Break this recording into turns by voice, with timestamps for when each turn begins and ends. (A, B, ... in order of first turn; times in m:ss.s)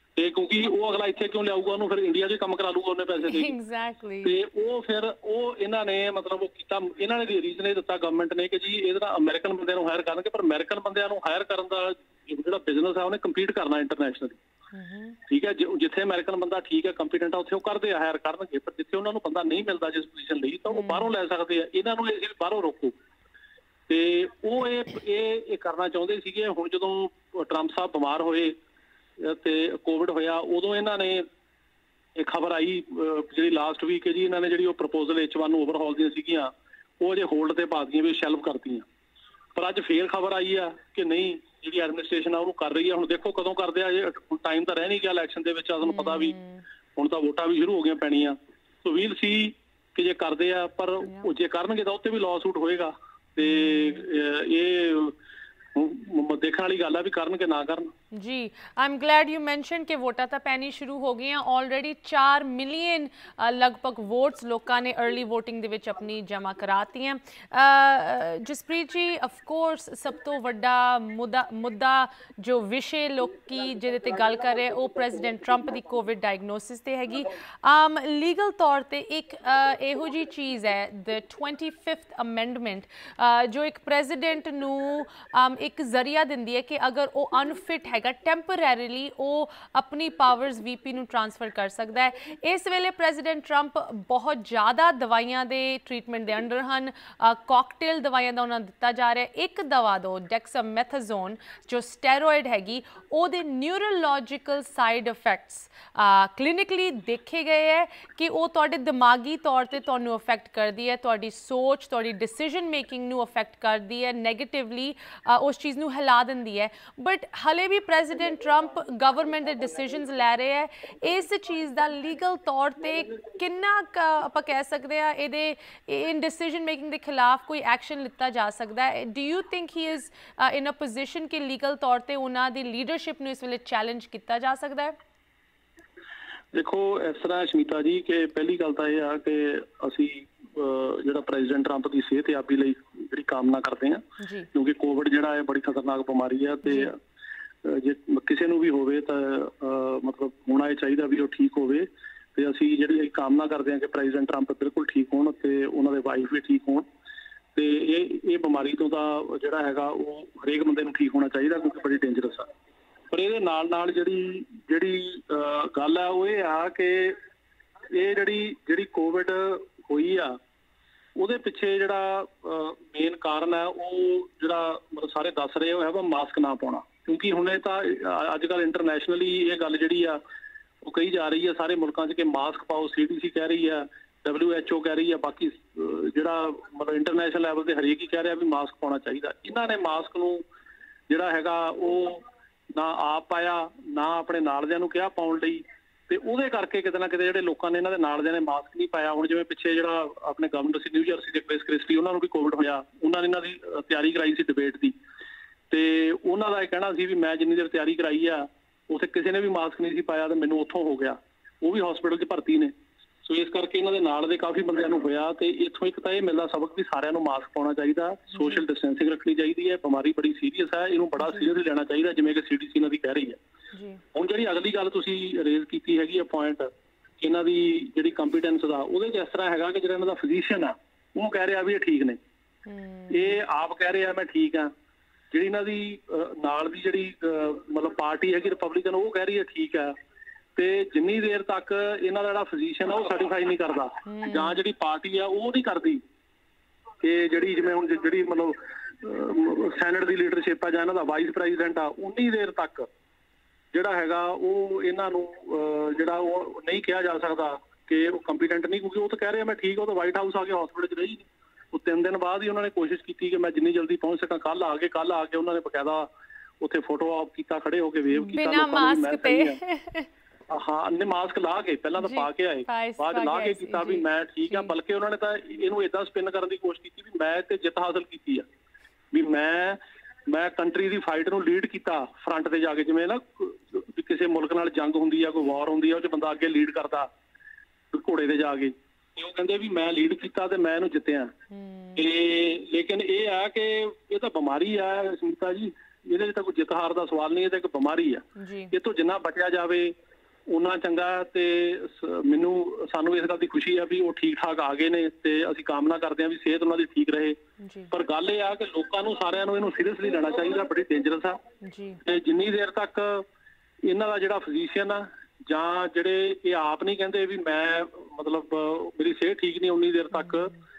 0:00.2-0:03.5 A
0:03.2-0:04.4 B
0:04.2-0:14.4 A
0:14.7-0:15.2 B
0:15.3-0:22.9 A
0:20.7-0:21.1 B
0:23.9-0:28.6 A
0:29.2-0:31.2 A
0:32.2-0:38.8 A
0:39.5-0:46.3 A
0:45.8-0:46.6 B
0:47.0-0:55.1 A
0:53.4-0:54.0 B
0:55.7-0:57.9 A
0:58.1-2:14.9 B
2:16.5-2:24.0 A
2:24.2-2:24.5 B
2:24.5-2:27.0 A
2:26.6-2:26.9 B
2:27.6-2:36.8 A
2:37.5-2:42.5 A
2:43.1-2:47.2 A
2:47.9-2:50.4 A
2:51.2-3:00.2 A
3:00.8-3:10.4 A
3:11.1-3:24.9 A
3:25.7-3:32.7 A
3:33.2-3:43.4 A
3:38.3-3:38.6 B
3:41.2-3:41.5 B
3:43.7-3:44.0 B
3:44.1-3:46.7 A
3:47.2-3:52.2 A
3:52.6-3:53.4 B
3:53.1-3:54.7 A
3:55.3-3:59.9 A
4:00.6-4:06.0 A
4:04.0-4:04.6 B
4:07.0-4:12.9 A
4:13.7-4:26.1 A
4:26.6-4:29.6 A
4:28.1-4:30.1 B
4:30.5-4:38.4 A
4:32.0-4:34.7 B
4:39.1-4:47.1 A
4:47.9-4:51.3 A
4:51.5-4:52.1 B
4:52.0-4:59.9 A
4:58.4-4:58.7 B
5:00.5-5:07.4 A
5:07.6-5:07.9 B
5:07.9-5:11.4 A
5:11.6-5:12.0 B
5:12.0-5:13.2 A
5:13.8-5:20.5 A
5:20.2-5:20.6 B